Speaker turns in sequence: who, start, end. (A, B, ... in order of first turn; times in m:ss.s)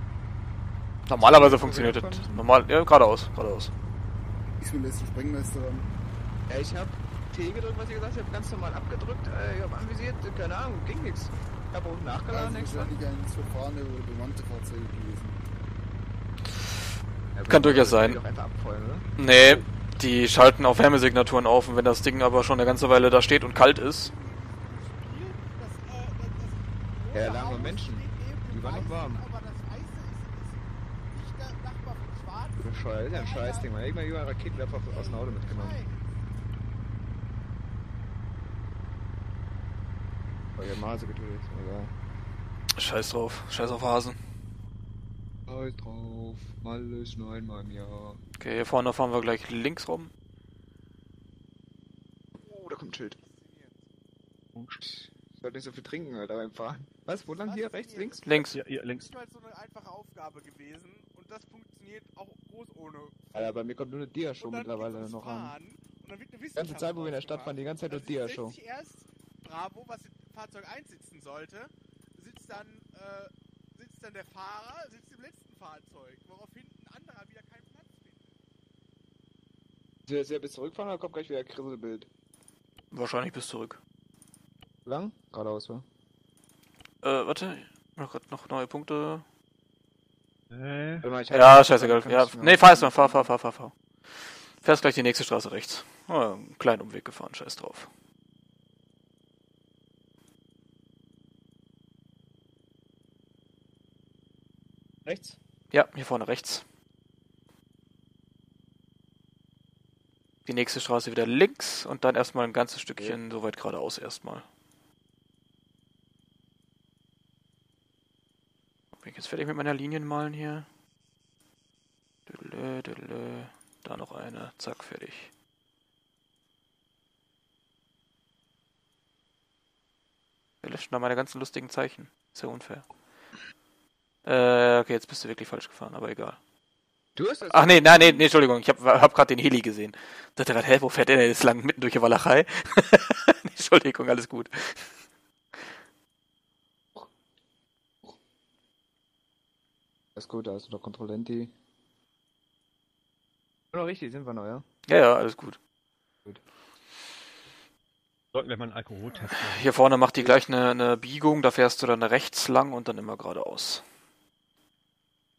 0:01.1-0:03.7 A
0:01.2-0:02.4 B
0:04.6-0:05.9 C
0:06.5-0:13.0 B
0:12.3-0:15.4 C
0:17.3-0:19.1 B
0:17.5-0:18.2 A
0:19.2-0:24.1 A
0:24.0-0:33.7 D
0:27.1-0:29.3 B
0:32.6-0:35.8 B
0:34.6-0:36.2 D
0:40.6-0:41.9 B
0:42.8-0:44.2 A
0:45.5-0:48.2 B
0:48.4-0:50.1 A
0:52.4-0:53.2 B
0:53.2-0:53.9 D
0:54.5-0:54.8 E
0:54.8-0:58.3 B
0:57.4-0:58.4 D
0:58.2-0:58.6 A
0:58.5-0:59.1 E
0:58.9-1:03.2 D
1:03.3-1:05.6 B
1:04.4-1:18.4 D
1:06.6-1:08.6 B
1:20.1-1:22.1 B
1:22.9-1:23.8 A
1:24.8-1:25.8 B
1:27.0-1:29.3 A
1:30.5-1:31.1 E
1:31.0-1:33.3 B
1:31.3-1:37.9 A
1:45.0-1:45.4 B
1:45.7-1:46.6 A
1:50.4-1:54.4 A
1:59.0-2:00.7 A
2:02.3-2:05.3 A
2:10.6-2:12.9 A
2:14.2-2:16.4 A
2:17.1-2:18.3 B
2:17.5-2:24.9 A
2:30.1-2:31.5 B
2:33.7-2:34.6 B
2:34.9-2:35.6 A
2:38.3-2:39.8 E
2:39.6-2:43.8 A